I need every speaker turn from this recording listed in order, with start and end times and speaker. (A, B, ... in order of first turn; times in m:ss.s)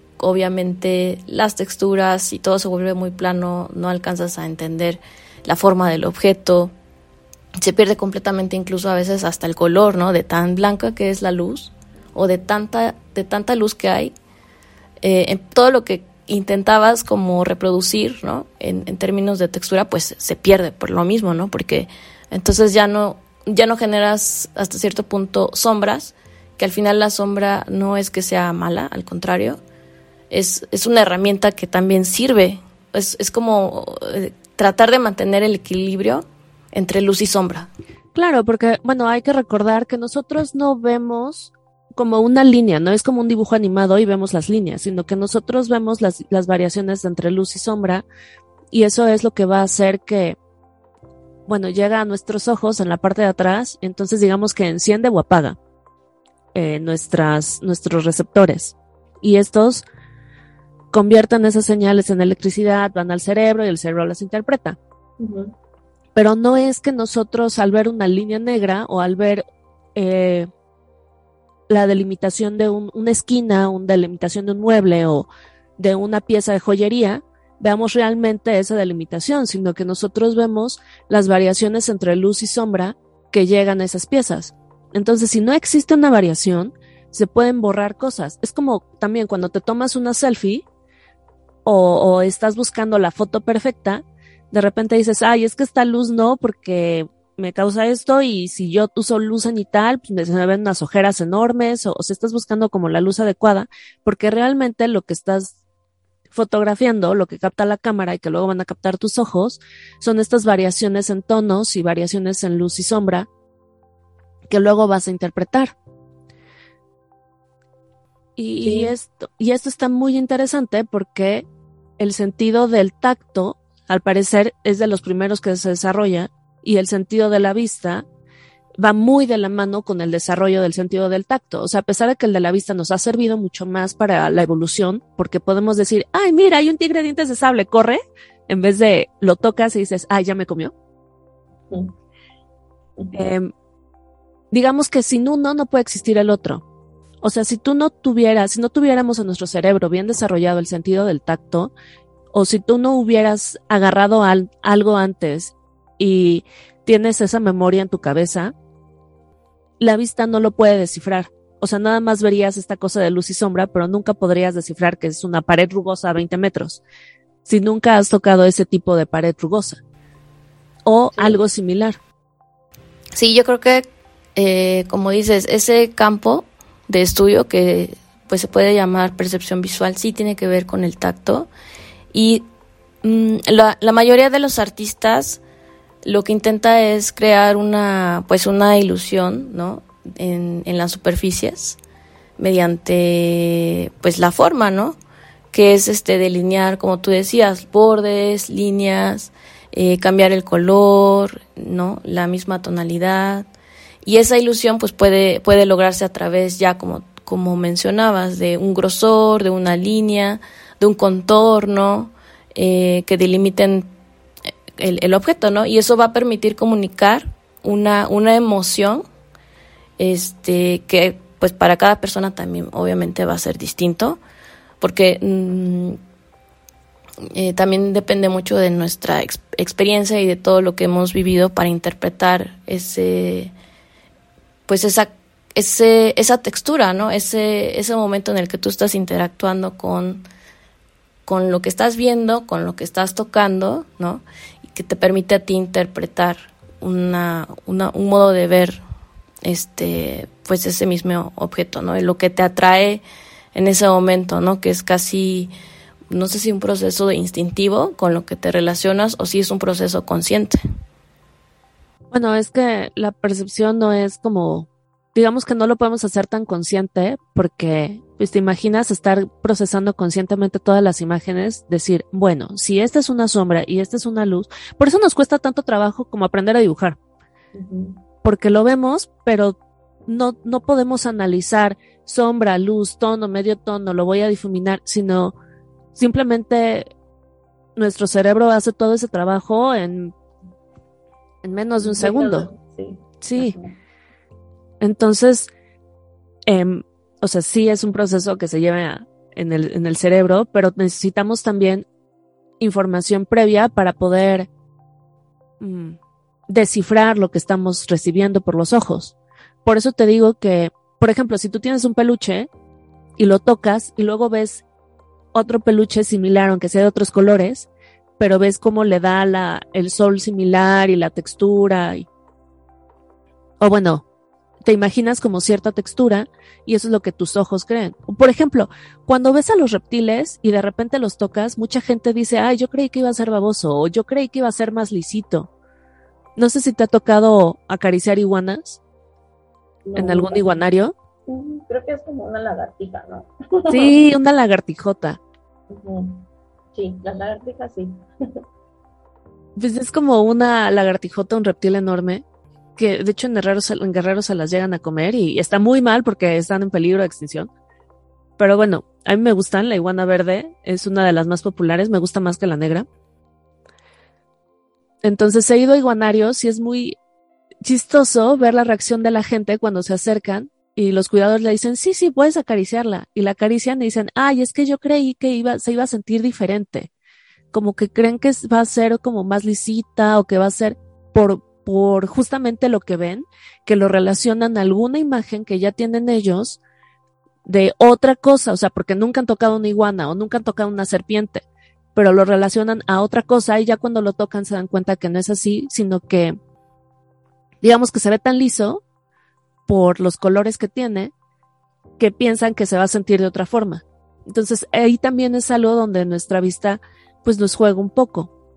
0:00.2-0:06.7 A
0:07.6-0:14.1 A
0:15.0-0:29.6 A
0:30.3-0:37.7 A
0:38.2-0:48.0 B
0:48.7-0:50.4 B
0:51.5-0:55.6 B
0:56.5-0:59.8 B
1:00.9-1:04.8 B
1:05.2-1:05.5 C
1:06.2-1:09.4 B
1:10.0-1:10.5 B
1:11.7-1:30.6 B
1:31.6-1:45.5 B
1:46.3-1:53.3 B
1:54.5-1:55.7 B
1:58.4-2:01.5 B
1:58.6-1:58.9 C
2:02.0-2:08.0 B
2:08.8-2:20.7 B
2:23.1-2:23.5 B
2:24.5-2:26.6 B
2:27.2-2:31.7 B
2:32.3-2:38.5 B
2:39.8-2:46.8 B
2:47.4-2:49.8 B
2:50.8-2:52.0 B
2:53.2-3:01.5 A
3:02.1-3:02.4 A
3:03.0-3:05.4 A
3:06.0-3:11.8 A
3:12.4-3:15.0 A
3:15.5-3:23.5 A
3:24.0-3:33.9 A
3:34.8-3:39.0 A
3:40.0-3:44.2 A
3:44.8-3:46.0 A
3:47.3-3:53.5 A
3:54.7-4:00.2 A
4:01.3-4:08.8 A
4:09.4-4:13.0 A
4:13.5-4:15.5 A
4:16.1-4:20.6 A
4:22.1-4:37.0 B
4:37.5-4:38.0 C
4:38.2-4:39.6 B
4:40.1-4:45.4 B
4:46.0-4:46.9 B
4:47.8-4:50.2 B
4:51.4-4:52.5 B
4:51.8-4:53.8 C
4:53.2-4:53.6 B
4:54.8-4:55.5 B
4:56.5-5:01.8 B
5:02.6-5:04.5 B
5:05.6-5:12.5 B
5:13.2-5:14.6 B
5:15.3-5:17.7 B
5:18.2-5:22.1 B
5:23.6-5:24.0 B
5:24.6-5:35.5 B
5:36.4-5:38.8 B
5:39.8-5:40.4 C
5:40.0-5:40.9 B
5:41.3-5:44.0 C
5:43.7-5:45.2 B
5:45.7-5:48.4 C
5:49.6-5:52.2 B
5:52.8-5:57.5 B
5:58.4-6:02.9 B
6:05.0-6:07.0 B
6:07.6-6:16.9 B
6:17.5-6:26.6 B
6:27.4-6:36.4 B
6:37.6-6:38.8 B
6:39.7-6:41.1 B
6:42.0-6:48.3 B